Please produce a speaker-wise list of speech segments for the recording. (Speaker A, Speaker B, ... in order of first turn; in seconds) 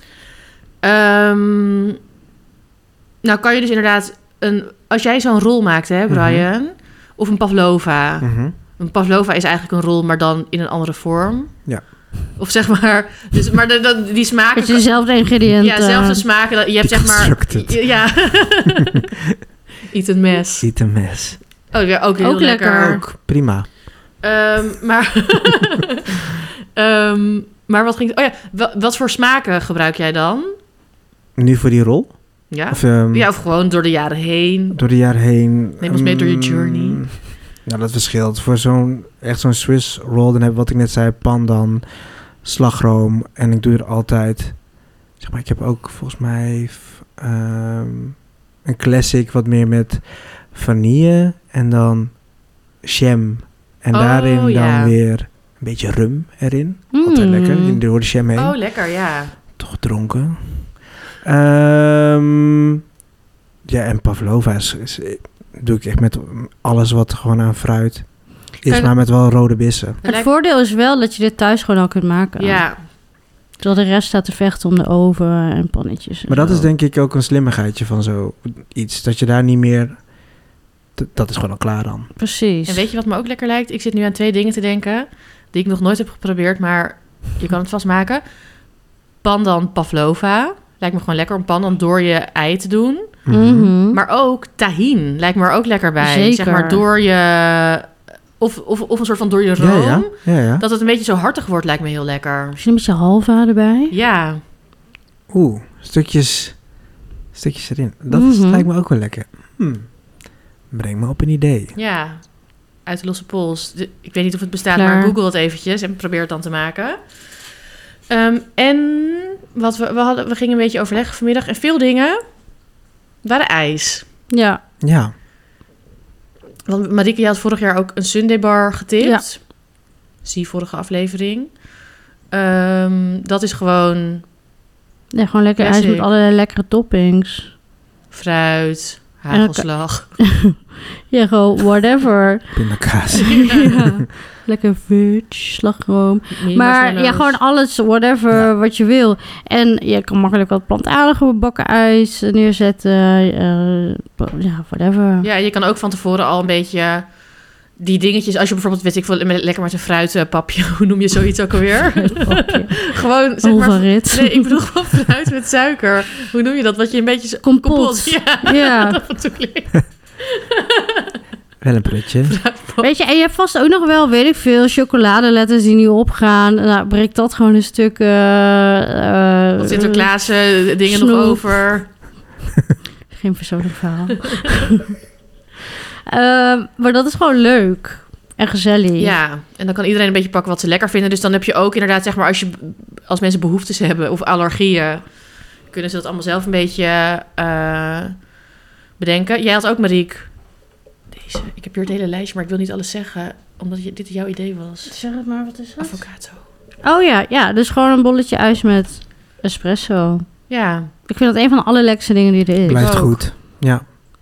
Speaker A: 0.8-2.0, 3.2-11.7, 12.4-19.0, 19.9-20.7, 21.7-23.0, 24.2-30.6, 32.5-34.8, 35.8-37.2, 53.9-55.0, 58.4-59.4, 70.0-70.3, 72.4-72.8, 82.7-88.2, 89.2-93.3, 93.9-102.6, 103.9-104.4, 111.8-117.2, 118.1-122.2, 123.2-124.1, 126.7-129.5, 130.2-131.6, 132.3-134.3, 135.6-136.1, 138.1-140.2, 143.2-143.7, 146.3-147.4, 155.2-157.1, 157.8-171.1, 172.2-172.9, 179.6-181.9, 189.0-195.1, 195.7-198.3, 199.0-200.4, 201.1-204.9, 205.8-206.4, 210.5-210.9, 212.7-213.2
Speaker B: 6.1-6.5, 8.2-8.5, 16.8-17.9, 20.6-21.4, 22.8-23.7, 31.4-33.3, 34.7-41.9, 42.4-44.6, 45.2-52.2, 52.8-58.6, 59.6-62.8, 63.6-70.0, 76.3-80.1, 81.0-82.1, 93.3-93.7, 99.6-100.6, 105.3-106.6, 107.3-109.9, 110.7-111.7, 124.8-125.1, 142.6-143.8, 171.6-172.4, 212.7-213.9
Speaker C: 14.6-16.2, 22.2-23.0, 56.9-57.8, 68.7-68.9, 70.0-72.7, 73.6-76.7, 82.2-82.8, 93.3-94.0, 96.0-96.8, 102.6-103.9, 108.1-108.7, 114.7-115.1, 124.3-124.6, 135.1-137.5, 139.3-140.6, 141.1-155.3, 162.0-164.5, 167.4-169.0, 172.8-180.1, 180.8-181.6, 183.1-184.9, 186.1-189.2, 204.9-206.0, 206.8-210.3, 211.1-213.0